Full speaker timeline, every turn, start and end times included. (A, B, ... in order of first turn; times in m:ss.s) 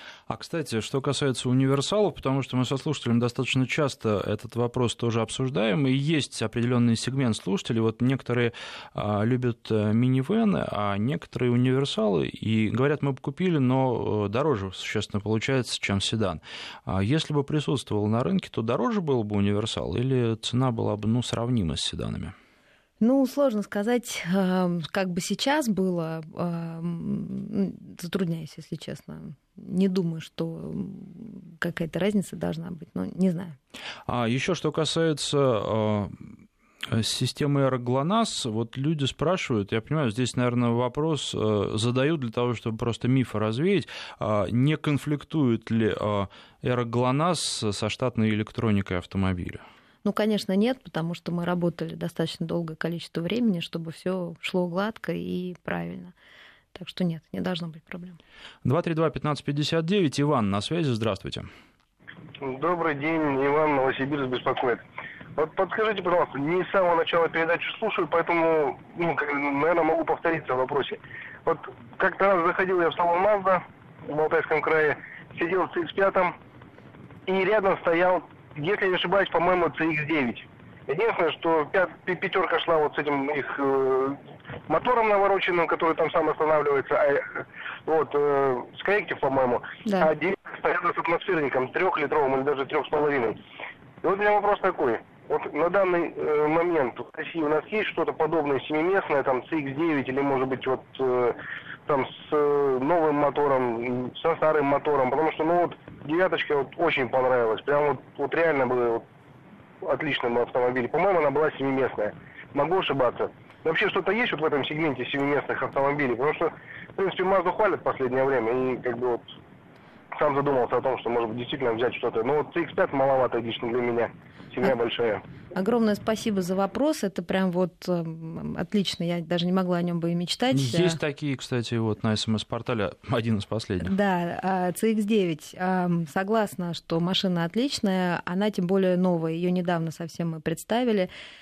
0:00.3-0:22.3 A
0:23.0-0:33.6 B
0:34.1-0:36.4 A
0:36.9-0:49.6 A
0:50.0-0:56.1 B
0:56.7-0:58.2 B
0:58.6-1:01.5 A
1:02.4-1:04.8 C
1:05.4-1:16.4 C
1:17.2-1:33.4 C
1:29.8-1:30.1 B
1:34.0-1:49.0 C
1:49.8-1:59.4 C
2:00.1-2:05.2 C
2:05.5-2:11.0 B
2:10.5-2:13.9 A
2:13.8-2:21.1 B